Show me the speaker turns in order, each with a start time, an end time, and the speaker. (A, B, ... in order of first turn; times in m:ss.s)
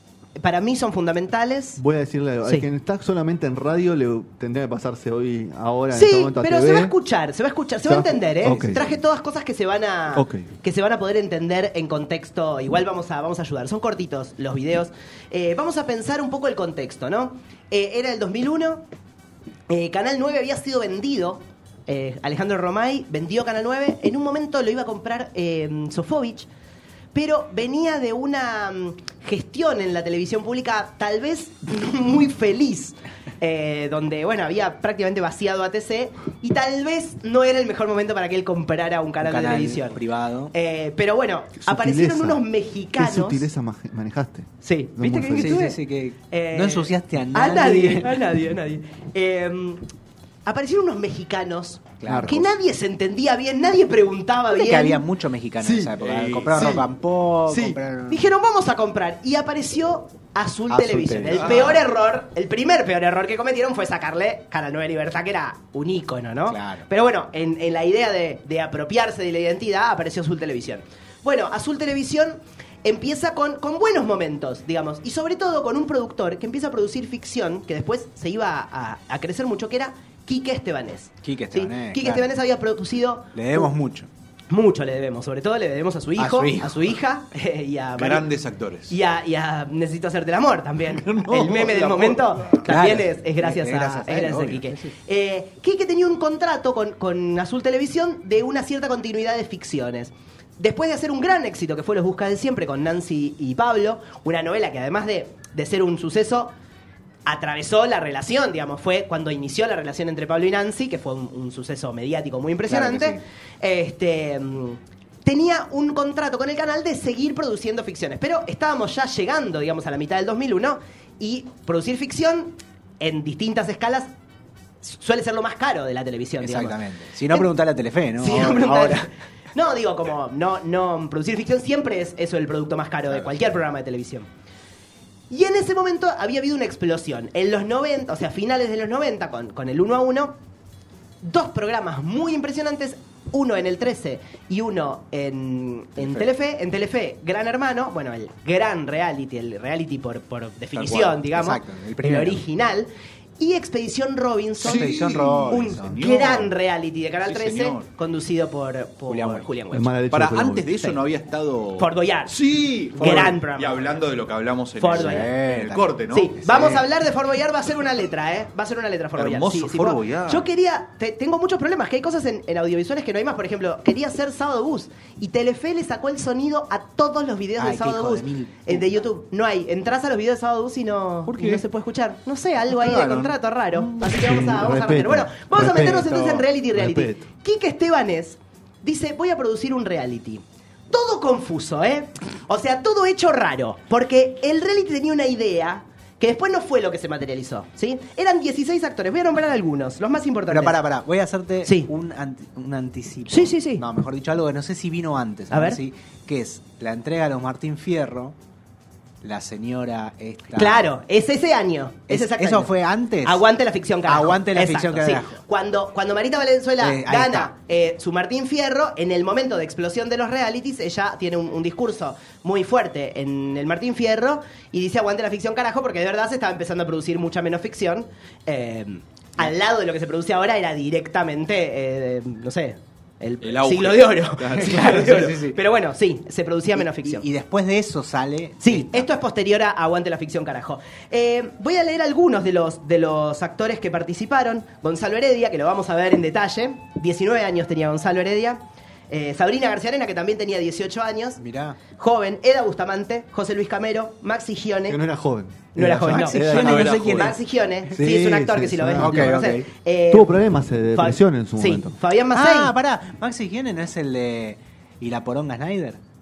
0:00.4-0:01.8 A
0:01.8-0:06.9 B
0:05.9-0:18.8 A
0:07.8-0:08.8 B
0:08.4-0:09.0 C
0:10.2-0:10.5 B
0:19.7-0:26.5 A
0:27.1-0:40.0 A
0:39.2-0:40.5 C
0:40.5-0:43.5 A
0:41.6-0:42.4 B
0:43.0-0:45.7 B
0:44.6-0:49.8 A
0:45.3-0:48.2 C
0:50.4-0:55.0 A
0:52.0-0:52.5 C
0:52.0-0:52.4 B
0:54.5-0:58.3 C
0:56.0-0:56.9 D
0:56.6-0:56.8 A
0:57.5-1:23.7 A
1:00.7-1:01.8 C
1:01.3-1:01.8 D
1:06.5-1:06.8 C
1:21.2-1:22.3 C
1:23.3-1:24.1 C
1:24.5-1:28.2 A
1:26.2-1:27.0 C
1:28.0-1:28.9 D
1:28.9-1:46.5 A
1:30.9-1:32.6 D
1:32.6-1:34.9 C
1:47.2-2:04.1 A
1:52.6-1:53.2 C
2:04.8-2:07.5 A
2:06.4-2:09.0 C
2:08.2-2:14.3 A
2:15.3-2:20.4 A
2:21.2-2:39.9 A
2:26.0-2:26.2 C
2:30.8-2:32.4 C
2:34.6-2:36.0 C
2:34.6-2:36.5 D
2:37.2-2:37.9 D
2:39.1-2:39.5 C
2:39.7-2:40.7 B
2:40.1-2:46.8 D
2:40.7-2:41.0 A
2:41.8-2:42.3 A
2:43.0-2:43.8 A
2:44.8-2:45.3 A
2:44.9-2:45.9 C
2:46.1-3:20.8 A
2:46.5-2:46.8 C
2:49.2-2:50.5 D
2:57.6-2:59.0 C
3:01.2-3:01.6 D
3:02.7-3:03.4 D
3:04.0-3:07.2 B
3:20.5-3:28.4 C
3:21.6-3:21.9 A
3:23.3-3:23.8 A
3:25.5-3:25.8 A
3:29.2-3:30.9 C
3:30.5-3:57.2 A
3:32.1-3:33.4 C
3:34.0-3:35.4 C
3:36.8-3:37.5 C
3:53.4-3:55.0 D
3:54.5-3:55.6 C
3:56.8-3:59.1 C
3:58.6-4:15.0 A
4:11.4-4:11.8 C
4:14.9-4:16.8 B
4:15.7-4:20.4 A
4:16.0-4:17.3 C
4:16.4-4:17.4 D
4:18.0-4:19.4 B
4:19.0-4:19.7 C
4:20.1-4:22.0 B
4:20.9-4:22.7 A
4:22.3-4:26.0 C